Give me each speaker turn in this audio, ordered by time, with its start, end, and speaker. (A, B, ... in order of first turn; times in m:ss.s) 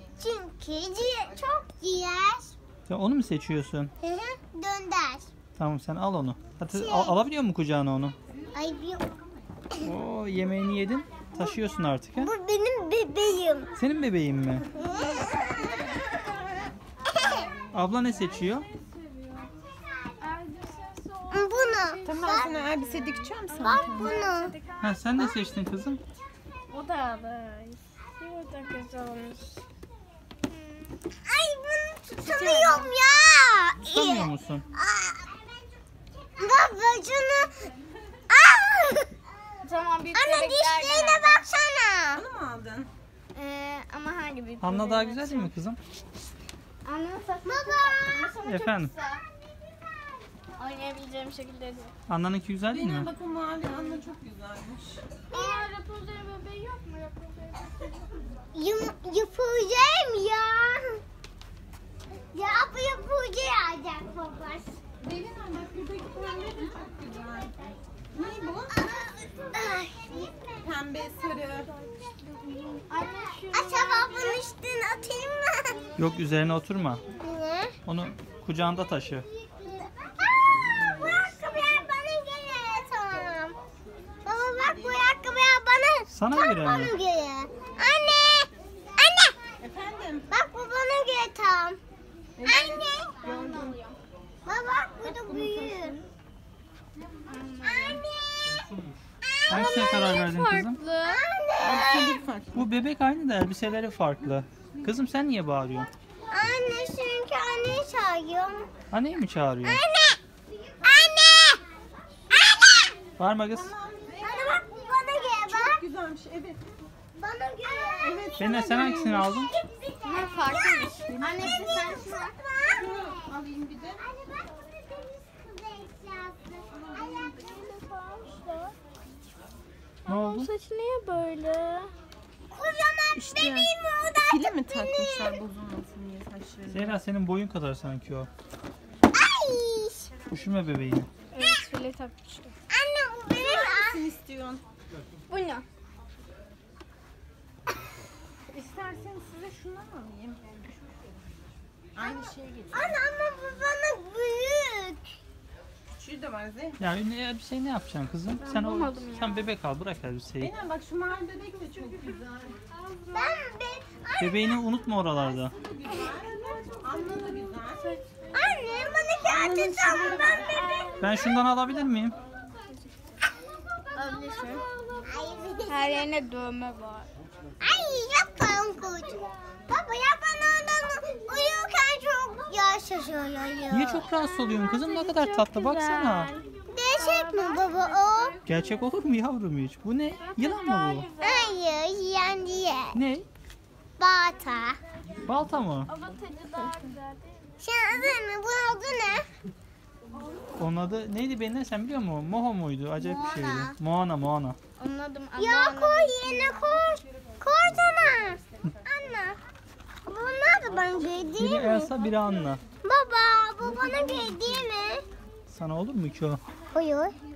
0:00.2-0:02.5 A
0:02.9-0:03.9 B
0:04.0-0:05.3 A
0:05.6-0:08.2 B
0:06.7-0:07.2 A
0:08.3-0:08.8 C
0:08.5-0:09.0 A
0:09.8-0:12.3 B
0:12.2-0:13.8 A
0:13.8-0:14.7 B
0:14.8-0:16.4 A
0:15.3-0:16.4 C
0:17.1-0:17.5 A
0:17.7-0:18.7 B
0:18.3-0:19.5 D
0:20.2-0:25.3 D
0:21.3-0:22.6 A
0:22.0-0:24.2 C
0:23.6-0:24.5 A
0:24.8-0:26.0 B
0:26.7-0:29.6 D
0:30.5-0:30.9 D
0:31.2-0:35.4 A
0:32.2-0:32.9 D
0:33.8-0:34.7 B
0:36.3-0:37.5 A
0:38.3-0:39.1 A
0:39.6-0:41.4 D
0:40.1-0:42.2 A
0:42.1-0:42.9 C
0:43.3-0:45.5 D
0:44.6-0:45.8 B
0:46.8-0:49.2 D
0:47.4-0:48.3 A
0:48.4-0:48.9 B
0:50.6-0:51.9 D
0:52.1-0:53.1 B
0:52.7-0:55.2 C
0:55.3-0:58.1 D
0:55.3-0:55.7 A
0:58.5-1:01.0 A
1:02.3-1:04.8 A
1:05.0-1:07.5 C
1:08.1-1:08.8 C
1:08.7-1:10.7 A
1:10.6-1:11.7 C
1:12.5-1:14.4 D
1:12.9-1:15.9 A
1:16.0-1:17.0 B
1:17.2-1:17.8 A
1:17.9-1:19.2 B
1:19.3-1:23.6 A
1:24.2-1:29.4 A
1:26.1-1:26.9 B
1:29.6-1:30.3 C
1:30.3-1:31.8 A
1:32.4-1:33.8 C
1:32.4-1:33.3 A
1:33.3-1:34.0 D
1:34.4-1:36.0 A
1:35.0-1:36.1 C
1:37.2-1:38.0 D
1:37.9-1:38.2 A
1:38.5-1:39.0 B
1:39.3-1:39.8 A
1:39.5-1:40.8 B
1:39.5-1:41.2 D
1:41.0-1:42.2 A
1:41.6-1:42.6 C
1:42.5-1:45.9 B
1:46.3-1:48.7 A
1:48.9-1:49.8 B
1:49.6-1:50.2 A
1:50.8-1:51.6 A
1:52.3-1:52.9 A
1:53.2-1:53.7 B
1:53.5-1:54.6 C
1:54.2-1:55.8 A
1:55.3-1:56.6 C
1:57.2-2:03.3 A
1:58.0-1:59.4 C
1:58.4-1:59.5 B
2:00.0-2:01.1 D
2:01.1-2:02.0 C
2:02.7-2:04.0 C
2:04.0-2:07.4 A
2:07.0-2:08.7 D
2:10.0-2:11.9 D
2:10.1-2:10.5 B
2:12.5-2:15.4 A
2:13.1-2:13.7 C
2:14.2-2:17.0 C
2:16.7-2:18.3 B
2:19.1-2:20.1 A
2:20.3-2:21.1 B
2:21.3-2:22.5 D
2:22.7-2:24.1 A
2:23.3-2:24.6 C
2:25.3-2:25.6 D
2:28.5-2:30.4 C
2:31.9-2:32.9 C
2:32.7-2:35.0 A
2:36.0-2:36.8 C
2:36.8-2:40.5 B
2:38.4-2:39.5 D
2:40.4-2:42.6 C
2:43.1-2:44.6 A
2:44.2-2:45.5 B
2:45.4-2:48.0 C
2:48.3-2:51.2 A
2:49.2-2:50.8 C
2:50.9-2:51.1 D
2:51.0-2:52.2 B
2:53.9-2:54.6 D
2:55.0-2:56.1 A
2:55.7-2:57.1 D
2:57.6-3:04.1 A
3:03.7-3:06.3 B
3:04.3-3:08.5 D
3:06.7-3:08.4 A
3:08.4-3:11.1 B
3:10.2-3:11.5 D
3:11.2-3:13.0 A
3:12.9-3:13.3 B
3:14.0-3:14.8 A
3:15.2-3:15.9 B
3:15.9-3:17.5 D
3:17.6-3:19.2 A
3:20.6-3:24.6 B
3:23.0-3:23.8 D
3:24.8-3:26.3 D
3:25.4-3:29.4 A
3:30.0-3:31.9 A
3:31.4-3:32.6 B
3:32.8-3:35.0 A
3:35.5-3:36.4 B
3:36.7-3:37.1 A